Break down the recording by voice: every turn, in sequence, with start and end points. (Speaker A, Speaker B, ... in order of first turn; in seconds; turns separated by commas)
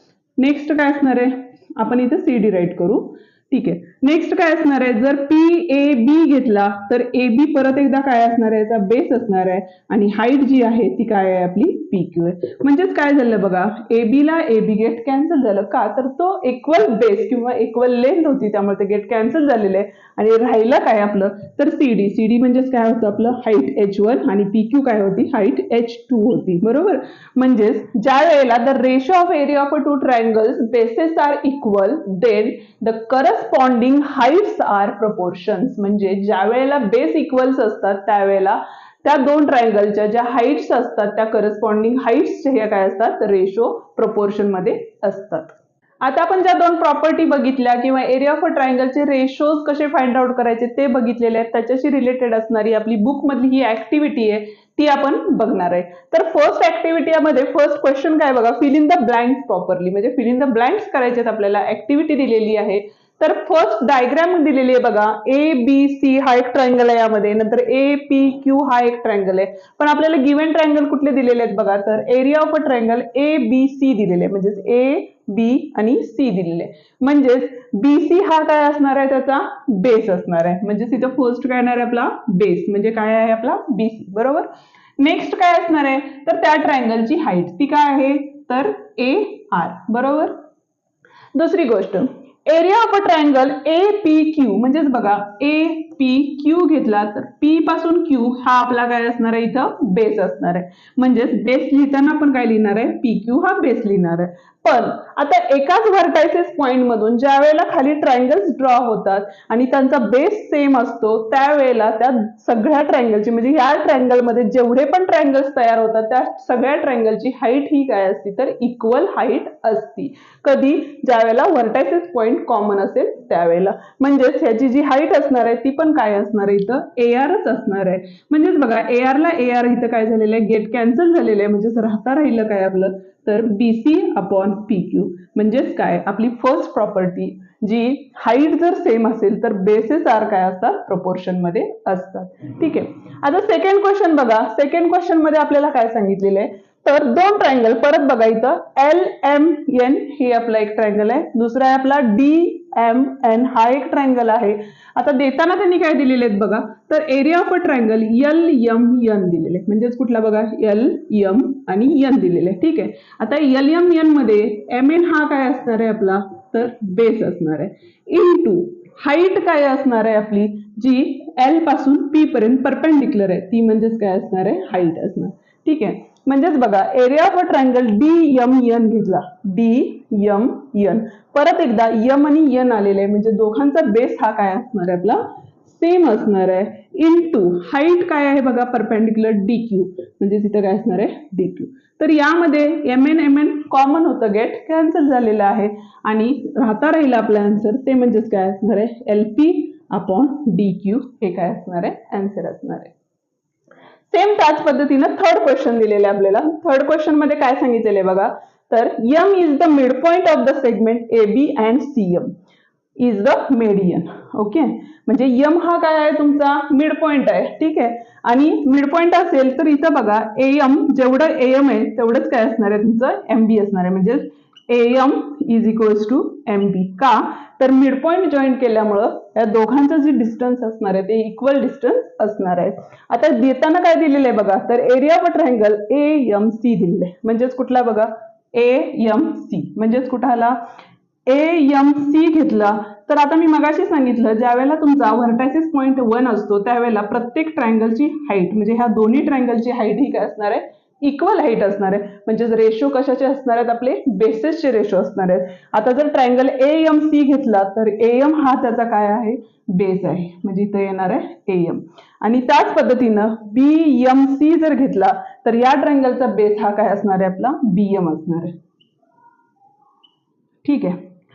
Speaker A: 0.4-84.5, Speaker A: 85.0-90.4, Speaker A: 91.3-202.9, Speaker A: 204.1-212.3, Speaker A: 213.0-240.6, Speaker A: 241.3-268.6, Speaker A: 270.6-271.0